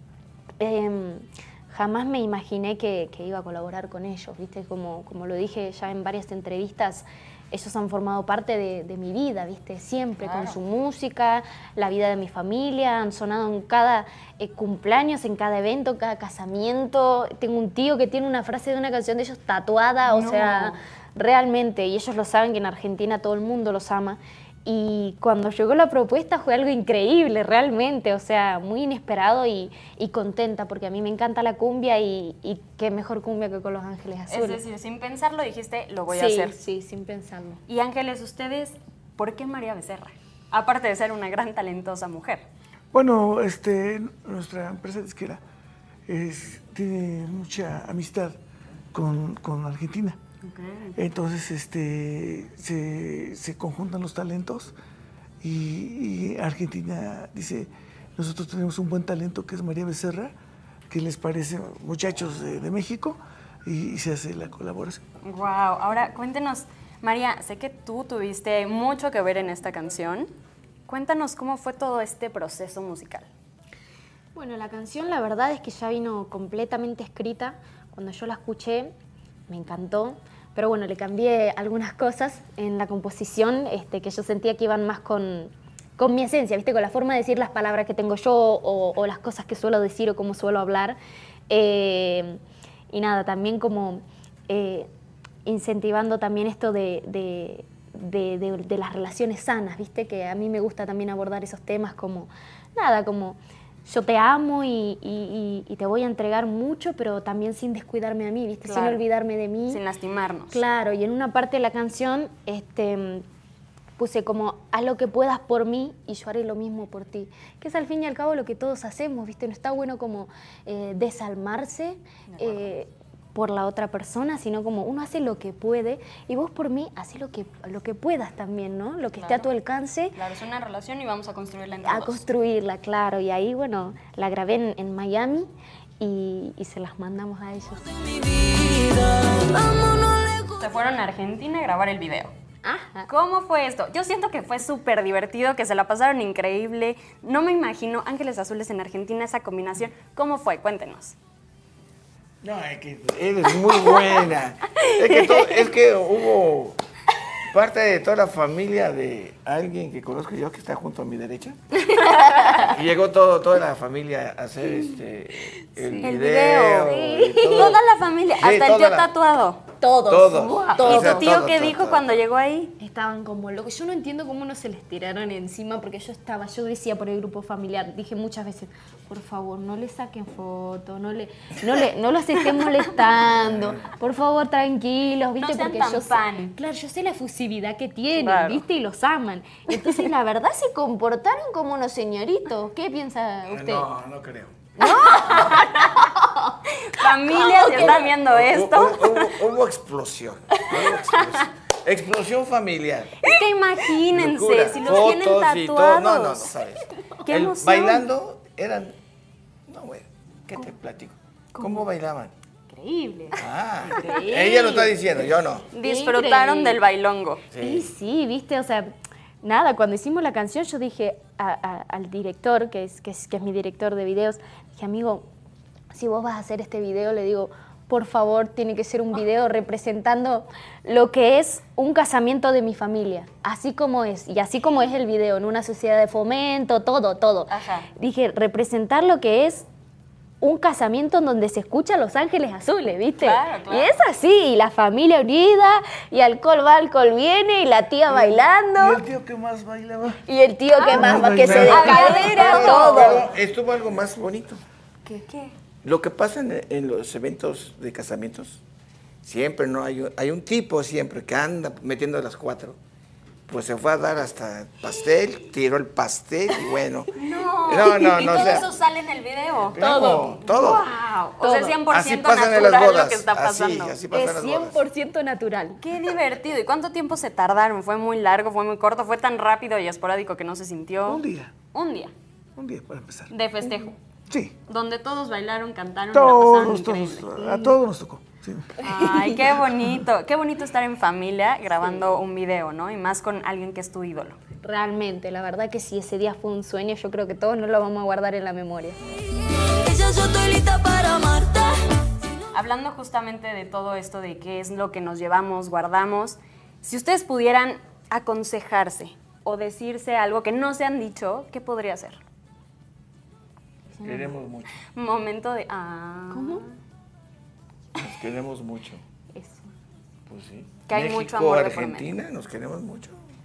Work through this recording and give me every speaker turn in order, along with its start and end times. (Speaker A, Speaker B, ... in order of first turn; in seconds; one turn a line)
Speaker A: 0.6-34.6
Speaker B: 10.2-10.6
Speaker B: 20.1-20.8
Speaker B: 34.3-36.5
Speaker A: 36.1-37.6
Speaker B: 37.7-42.4
Speaker C: 42.9-45.4
Speaker C: 46.1-48.4
Speaker C: 48.9-50.2
Speaker B: 50.4-50.9
Speaker C: 50.9-54.7
Speaker C: 55.4-60.3
Speaker C: 60.9-65.0
Speaker B: 65.2-70.3
Speaker B: 70.9-73.3
Speaker A: 74.3-78.9
Speaker A: 79.5-91.0
Speaker A: 91.5-94.9
Speaker A: 95.5-109.8
Speaker B: 108.6-109.0
Speaker B: 109.7-110.6
Speaker A: 110.5-113.2
Speaker A: 114.0-130.2
Speaker B: 122.3-122.7
Speaker B: 129.2-129.5
Speaker B: 130.1-132.2
Speaker A: 131.8-137.9
Speaker D: 138.0-140.6
Speaker B: 140.4-142.3
Speaker A: 142.6-143.1
Speaker B: 143.1-151.2
Speaker E: 152.4-156.8
Speaker A: 155.2-155.6
Speaker E: 157.5-161.6
Speaker A: 162.0-162.7
Speaker B: 162.1-162.5
Speaker E: 162.6-167.8
Speaker A: 165.8-166.1
Speaker B: 165.8-169.6
Speaker A: 166.7-167.8
Speaker E: 168.4-169.1
Speaker A: 169.8-171.4
Speaker E: 170.1-172.2
Speaker B: 170.4-172.7
Speaker A: 172.8-193.9
Speaker B: 185.4-186.6
Speaker B: 188.1-188.6
Speaker E: 193.4-195.6
Speaker A: 194.8-198.1
Speaker B: 194.8-195.7
Speaker B: 196.8-199.3
Speaker E: 197.8-203.3
Speaker A: 200.8-201.0
Speaker B: 201.2-201.4
Speaker B: 203.2-206.5
Speaker E: 204.0-208.9
Speaker B: 207.2-208.0
Speaker E: 209.7-212.3
Speaker B: 212.7-214.4
Speaker E: 213.4-215.7
Speaker A: 213.8-214.9
Speaker B: 215.7-217.4
Speaker A: 215.8-216.8
Speaker E: 217.5-217.9
Speaker A: 217.6-218.9
Speaker A: 219.4-225.2
Speaker A: 225.9-239.7
Speaker B: 237.5-237.9
Speaker A: 240.4-249.0
Speaker B: 243.2-243.9
Speaker C: 248.1-250.2
Speaker A: 250.3-253.3
Speaker B: 250.7-253.2
Speaker C: 250.9-252.2
Speaker E: 252.4-254.6
Speaker B: 255.1-255.5
Speaker E: 255.8-258.6
Speaker E: 259.2-262.8
Speaker E: 263.5-267.1
Speaker B: 267.1-274.0
Speaker E: 267.6-268.7
Speaker A: 268.0-268.3
Speaker E: 269.6-270.8
Speaker A: 269.8-271.8
Speaker E: 271.9-274.8
Speaker A: 274.1-275.8
Speaker B: 275.8-282.1
Speaker C: 281.1-281.5
Speaker C: 282.6-283.3
Speaker B: 283.3-284.0
Speaker C: 284.3-284.5
Speaker B: 284.7-287.3
Speaker C: 286.1-288.8
Speaker A: 287.4-287.8
Speaker B: 288.8-294.4
Speaker A: 288.8-289.3
Speaker A: 294.6-299.0
Speaker D: 299.6-301.8
Speaker B: 302.5-312.2
Speaker E: 314.0-314.8
Speaker A: 314.0-314.3
Speaker B: 314.9-316.7
Speaker A: 316.3-316.6
Speaker E: 317.9-319.0
Speaker A: 319.3-319.7
Speaker E: 320.3-323.2
Speaker B: 320.9-322.1